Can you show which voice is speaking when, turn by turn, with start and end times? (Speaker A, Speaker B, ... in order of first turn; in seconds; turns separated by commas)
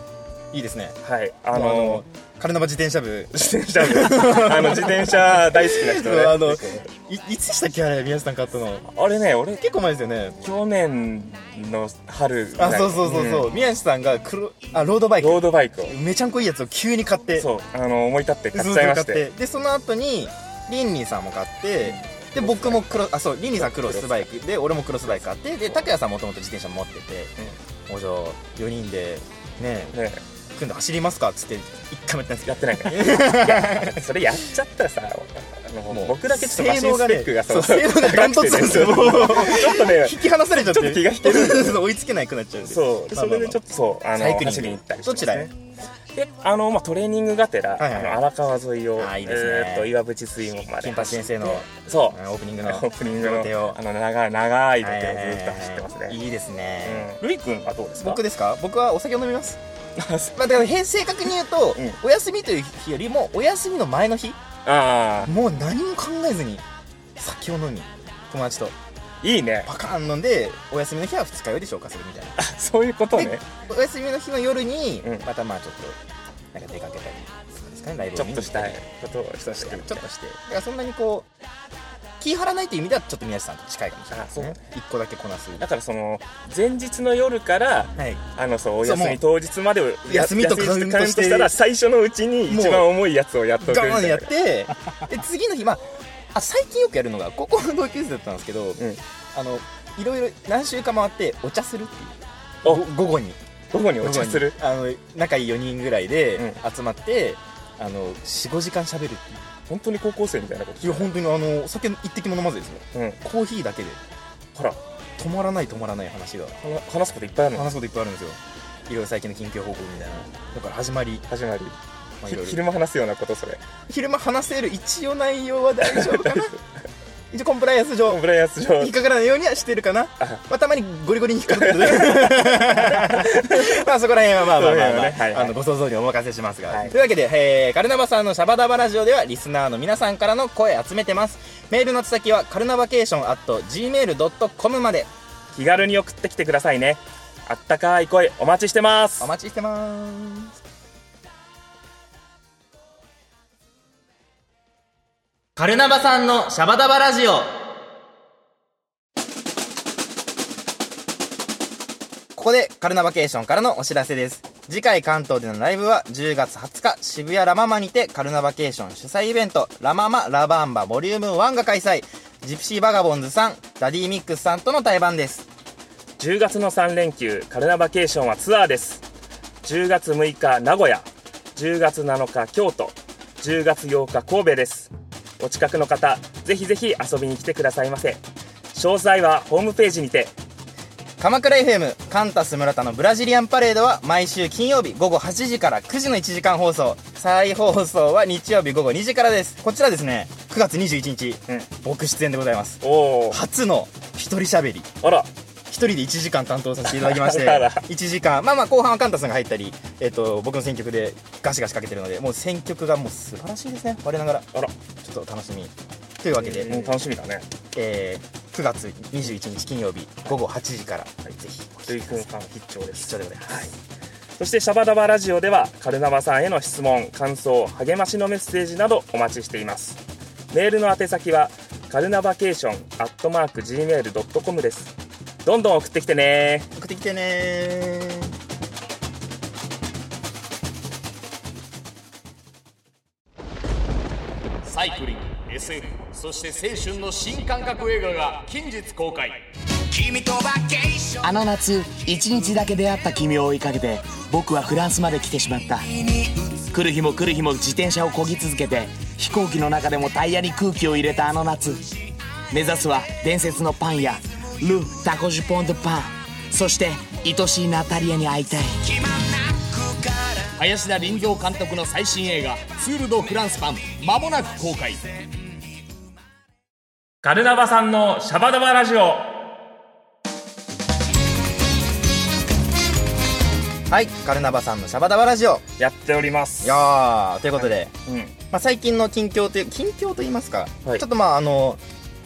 Speaker A: 0.5-1.0, Speaker B: 1.0-2.0, Speaker A: 1.5-8.9, Speaker B: 3.3-6.9, Speaker B: 8.9-9.6, Speaker A: 9.6-10.4, Speaker B: 10.4-13.7, Speaker A: 12.6-17.5, Speaker B: 15.2-15.9, Speaker B: 17.4-19.3, Speaker A: 18.5-27.3, Speaker B: 21.9-24.3, Speaker A: 27.9-29.9, Speaker B: 29.9-30.2, Speaker A: 30.6-34.0, Speaker B: 32.5-41.9, Speaker A: 35.9-43.6, Speaker B: 42.6-45.5, Speaker A: 44.1-45.5, Speaker B: 46.1-56.2, Speaker A: 47.8-48.2, Speaker A: 49.0-49.9, Speaker A: 50.8-53.8, Speaker A: 54.8-57.2, Speaker B: 56.8-58.2, Speaker A: 58.0-59.6, Speaker B: 60.0-60.6, Speaker A: 60.3-64.4, Speaker B: 64.7-65.3, Speaker A: 65.2-66.6, Speaker A: 67.2-68.8, Speaker B: 69.2-69.7, Speaker A: 69.7-72.4, Speaker B: 72.4-73.4, Speaker A: 73.1-76.0, Speaker A: 76.5-78.8, Speaker B: 78.2-80.1, Speaker A: 79.5-81.3, Speaker A: 82.2-85.7, Speaker B: 84.1-84.6, Speaker B: 85.6-94.3, Speaker A: 88.0-88.2, Speaker A: 88.8-89.3, Speaker A: 90.0-91.6, Speaker A: 92.5-92.9, Speaker A: 93.6-103.4, Speaker B: 98.8-99.0, Speaker B: 103.7-104.6, Speaker A: 104.0-109.4, Speaker B: 106.4-106.6, Speaker B: 109.7-111.1, Speaker A: 110.8-114.0, Speaker A: 115.2-116.6, Speaker B: 116.6-117.8, Speaker A: 117.5-118.4, Speaker A: 118.9-121.2, Speaker B: 121.3-123.6, Speaker A: 122.2-122.7, Speaker A: 123.9-126.6, Speaker B: 125.8-126.5, Speaker A: 127.3-128.2, Speaker B: 128.1-129.0, Speaker A: 128.8-145.1, Speaker B: 131.5-133.9, Speaker B: 134.4-135.6, Speaker B: 136.7-137.0, Speaker B: 145.5-149.3, Speaker A: 149.2-150.5, Speaker A: 155.6-157.5, Speaker A: 162.3-175.5, Speaker B: 176.2-179.1, Speaker B: 179.6-190.3, Speaker A: 191.2-204.9, Speaker B: 202.8-203.4, Speaker B: 205.0-205.3, Speaker A: 205.7-214.5, Speaker B: 206.8-207.8, Speaker A: 215.0-217.0, Speaker B: 216.3-217.5, Speaker A: 217.7-223.8, Speaker B: 221.9-223.7, Speaker B: 224.4-230.0, Speaker B: 230.5-236.7, Speaker A: 236.8-238.3, Speaker C: 244.9-249.4, Speaker D: 249.9-261.9, Speaker D: 262.5-270.5, Speaker C: 270.6-271.7, Speaker D: 271.9-272.8, Speaker C: 272.3-273.2, Speaker D: 273.3-274.3, Speaker B: 277.2-279.4, Speaker A: 283.9-285.6, Speaker B: 285.8-286.9, Speaker A: 286.6-287.9, Speaker B: 287.6-288.3, Speaker A: 288.5-291.8